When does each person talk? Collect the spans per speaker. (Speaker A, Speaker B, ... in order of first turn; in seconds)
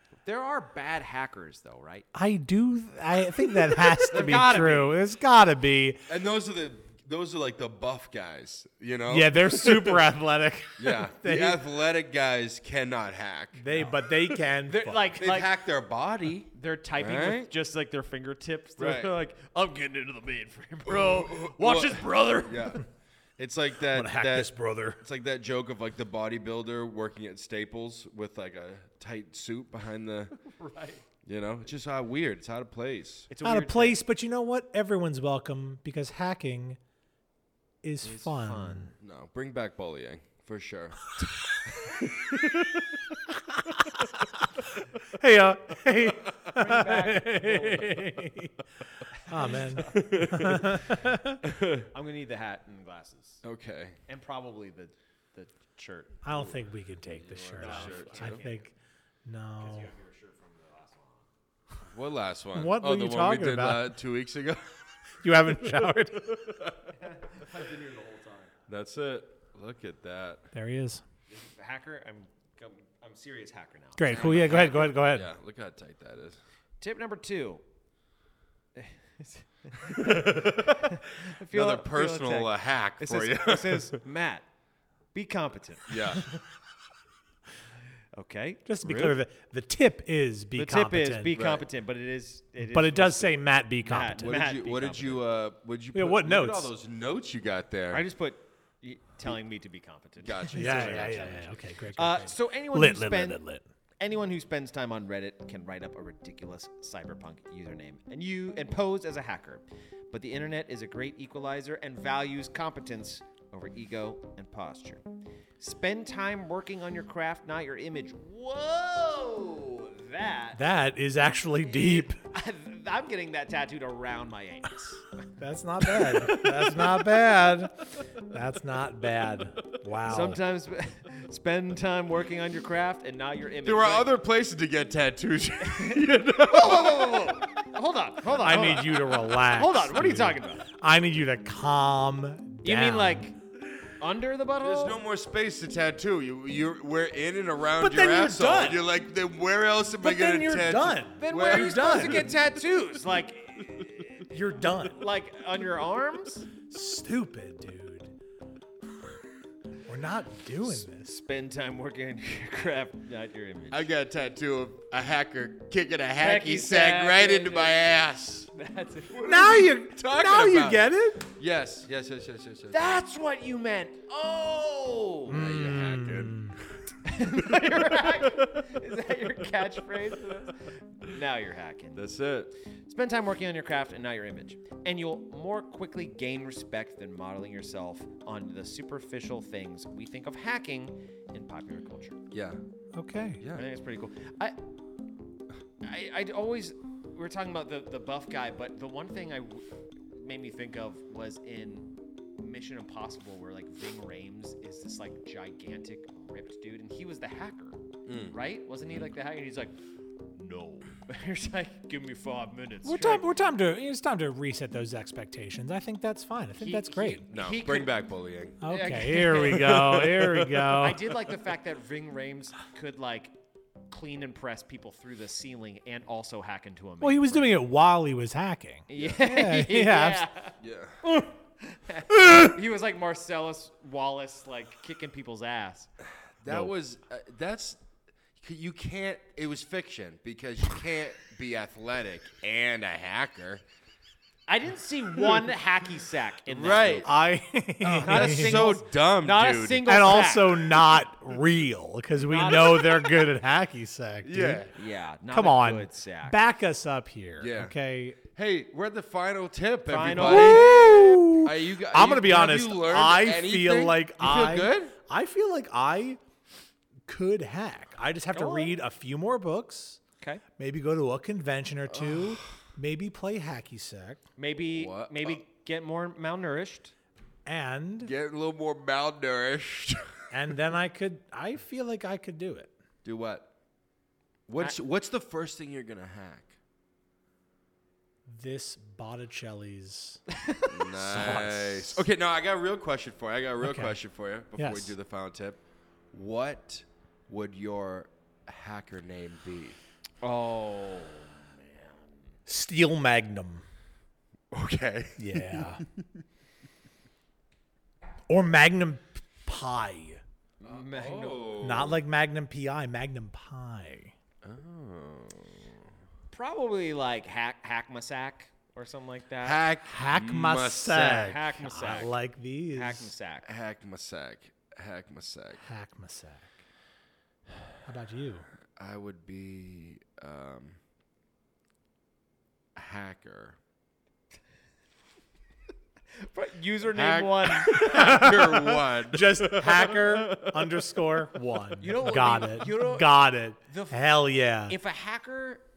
Speaker A: 0.2-2.1, 4.0-4.8, 14.7-15.5, 16.5-22.8, 30.4-31.0, 33.3-34.0, 38.0-39.0, 46.5-48.1, 49.2-50.0, 51.9-53.4, 54.1-56.2, 57.4-58.6, 59.6-61.3, 67.0-68.5, 71.3-74.9, 76.8-77.6, 78.8-84.5, 85.1-86.4, 88.1-89.2, 90.6-95.2, 97.9-103.4, 104.0-115.0, 115.6-120.6, 121.7-125.2, 130.1-134.1, 135.6-140.7, 142.6-143.3, 144.0-145.0, 151.2-154.3, 154.9-156.5, 161.1-163.9, 166.2-167.8, 168.6-169.4, 172.7-175.4, 177.0-182.0, 182.8-192.2, 193.5-194.6, 195.8-209.8, 210.4-213.3, 216.6-217.9, 218.7-219.8, 220.7-223.4, 223.9-227.6, 228.9-230.6, 231.6-235.9, 244.5-247.1, 247.9-250.8, 252.3-252.9, 254.7-256.4, 259.9-260.7, 268.3-268.8, 274.4-276.9, 300.2-302.3, 310.6-311.5, 316.3-319.6, 320.9-322.2, 322.7-323.5, 336.2-338.4, 341.8-344.1, 344.7-345.6
Speaker B: 2.1-6.0, 9.1-11.6, 13.6-15.1, 23.9-25.0, 33.4-36.8, 37.8-38.9, 45.0-48.6, 49.3-51.4, 56.2-58.7, 59.2-59.9, 62.5-63.9, 65.2-66.2, 70.5-71.0, 74.0-75.3, 88.7-91.3, 92.6-94.3, 95.9-96.7, 100.5-103.6, 120.6-122.2, 125.4-130.4, 138.4-143.3, 147.8-148.8, 150.0-152.3, 154.3-155.0, 156.7-158.1, 159.9-161.2, 169.2-171.3, 175.3-176.6, 192.9-193.4, 212.8-217.2, 218.6-221.0, 227.0-230.2, 236.5-236.7, 247.1-248.7, 249.8-254.7, 255.3-258.2, 260.2-266.2, 267.1-270.0, 270.6-274.2, 277.4-278.1, 280.3-282.7, 288.3-290.2, 290.9-292.1, 293.6-294.0, 294.6-294.9, 302.5-303.6, 305.2-305.8, 308.3-310.2, 311.6-314.1, 319.9-323.1, 325.6-326.6, 327.9-328.5, 337.8-344.8
Speaker C: 4.1-4.9, 6.1-10.0, 10.8-13.7, 15.2-17.5, 18.8-19.1, 20.9-22.9, 23.4-30.4, 31.2-33.3, 39.0-42.9, 49.8-50.7, 51.4-51.9, 53.4-54.0, 57.2-58.4, 61.8-64.9, 65.7-66.9, 68.7-70.5, 74.1-76.4, 80.0-83.9, 85.9-86.3, 91.3-91.7, 94.2-98.0, 100.2-101.5, 126.1-126.6, 133.6-137.5, 144.6-152.3, 163.7-168.5, 169.1-172.9, 175.3-176.7, 181.9-182.5, 192.3-192.6, 208.1-208.3, 217.3-218.7, 219.3-220.7, 230.6-231.0, 236.4-237.8, 238.4-243.6, 246.5-247.1, 247.8-249.9, 254.2-254.7, 257.4-257.7, 258.4-264.9, 271.9-272.5, 274.7-275.4, 278.0-280.0, 283.0-283.5, 284.5-286.6, 290.6-295.6, 296.1-299.8, 304.5-305.9, 310.6-312.0, 314.4-315.9, 319.4-321.1, 323.4-325.6, 328.8-330.8, 332.8-333.6, 336.9-339.7